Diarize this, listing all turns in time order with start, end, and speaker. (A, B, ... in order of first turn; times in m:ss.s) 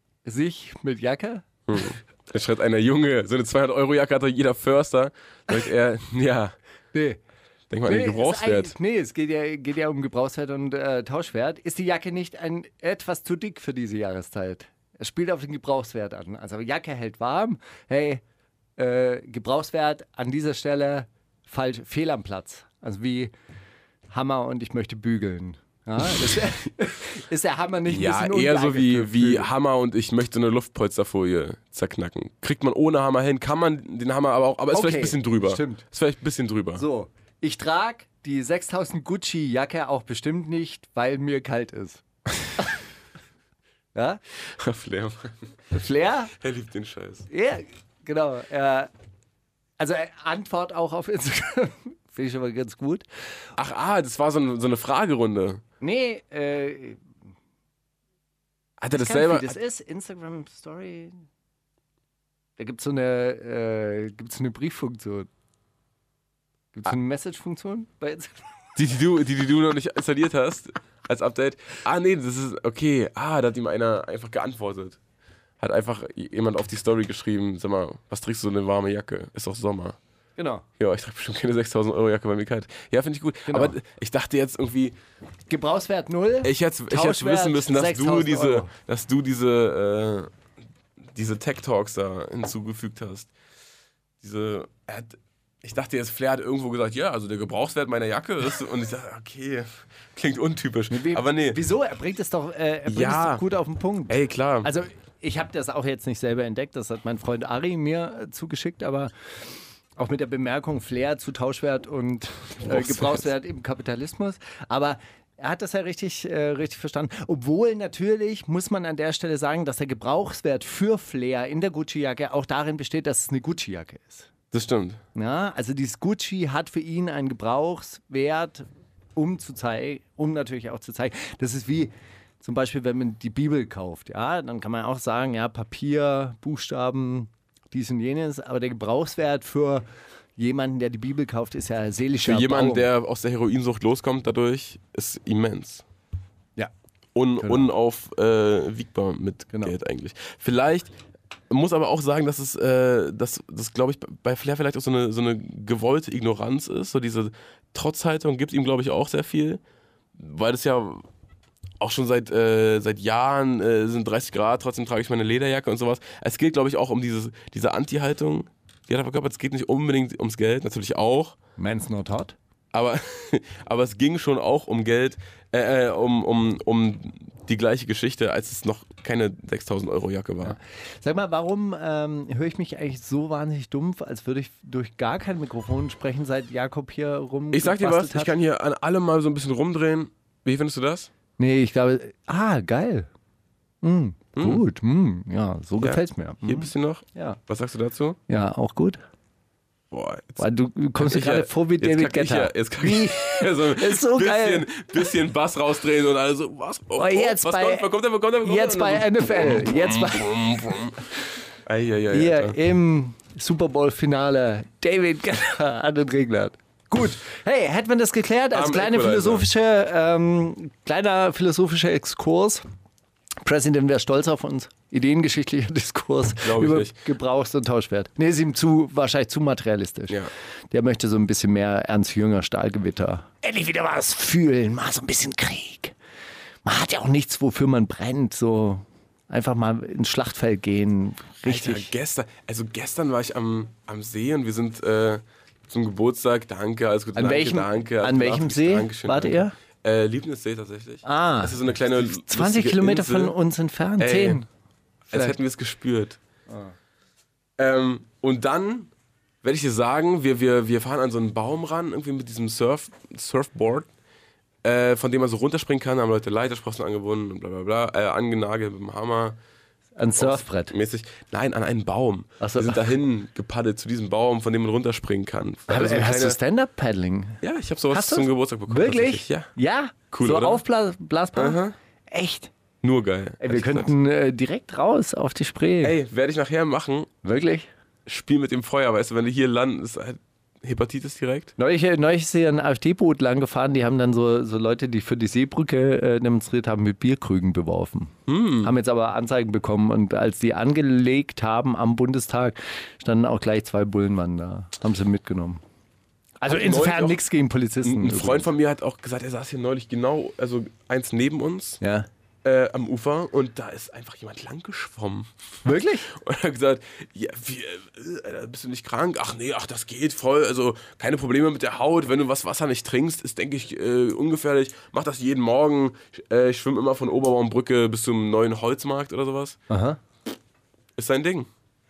0:00.2-0:01.8 A
0:01.7-0:06.6 B
0:06.9-0:07.2 A
0:07.7-0:08.7 B
0:07.8-0:18.2 A
0:18.8-0:23.3 A
0:24.1-0:29.5 A
0:27.9-0:36.8 B
0:34.7-0:35.8 A
0:36.8-0:42.0 A
0:43.9-0:44.2 A
0:44.4-0:45.5 B
0:45.7-0:46.3 A
0:46.4-0:47.3 B
0:47.3-0:48.9 A
0:49.8-0:53.0 A
0:53.6-0:55.6 B
0:55.8-0:57.0 A
0:58.8-0:59.6 B
0:58.9-1:01.2 A
1:02.6-1:05.3 A
1:06.7-1:08.5 A
1:08.8-1:15.0 B
1:15.6-1:20.0 B
1:20.4-1:20.6 A
1:20.8-1:24.9 B
1:23.5-1:23.8 A
1:25.5-1:28.7 A
1:26.4-1:30.3 B
1:31.1-1:33.3 B
1:34.2-1:41.6 B
1:40.9-1:49.1 A
1:42.9-1:43.4 B
1:44.1-1:44.7 B
1:50.0-2:04.3 A
1:52.6-1:53.3 B
2:04.5-2:05.0 B
2:05.1-2:19.8 A
2:20.4-2:22.8 A
2:22.2-2:25.8 B
2:27.1-2:30.9 B
2:27.4-2:27.7 A
2:31.5-2:39.6 B
2:40.2-2:41.1 B
2:41.8-2:51.4 B
2:51.6-2:52.4 A
2:52.7-3:00.6 B
3:00.4-3:08.3 A
3:07.5-3:11.1 B
3:11.4-3:13.1 A
3:13.8-3:17.4 A
3:14.4-3:14.6 B
3:15.8-3:18.2 B
3:18.3-3:19.0 A
3:19.9-3:20.5 B
3:20.4-3:24.7 A
3:21.0-3:31.0 B
3:27.0-3:27.9 A
3:28.4-3:30.4 A
3:31.6-3:32.6 B
3:32.1-3:42.6 A
3:38.5-3:39.5 B
3:43.4-3:50.2 A
3:46.4-3:47.0 B
3:50.7-3:55.9 A
3:56.6-4:01.9 A
4:01.4-4:13.4 B
4:07.1-4:09.5 A
4:11.0-4:14.5 A
4:14.0-4:14.4 B
4:15.1-4:15.3 A
4:15.1-4:16.2 B
4:16.5-4:16.7 A
4:17.6-4:18.9 B
4:19.4-4:23.9 B
4:24.6-4:29.4 B
4:30.0-4:30.7 A
4:30.1-4:36.4 B
4:32.4-4:32.9 A
4:35.7-4:37.4 A
4:37.4-4:39.5 B
4:37.9-4:42.5 A
4:40.1-4:40.6 B
4:41.3-4:41.8 B
4:42.8-4:43.9 B
4:43.4-4:46.0 A
4:45.8-4:47.1 B
4:47.2-4:47.7 A
4:48.0-4:51.5 B
4:51.6-5:05.6 A
4:58.3-4:58.7 B
5:06.4-5:08.5 A
5:06.5-5:07.2 B
5:07.8-5:11.8 B
5:11.8-5:12.1 A
5:12.4-5:15.3 B
5:15.6-5:16.1 A
5:16.1-5:29.6 B
5:29.7-5:30.0 A
5:31.0-5:31.5 B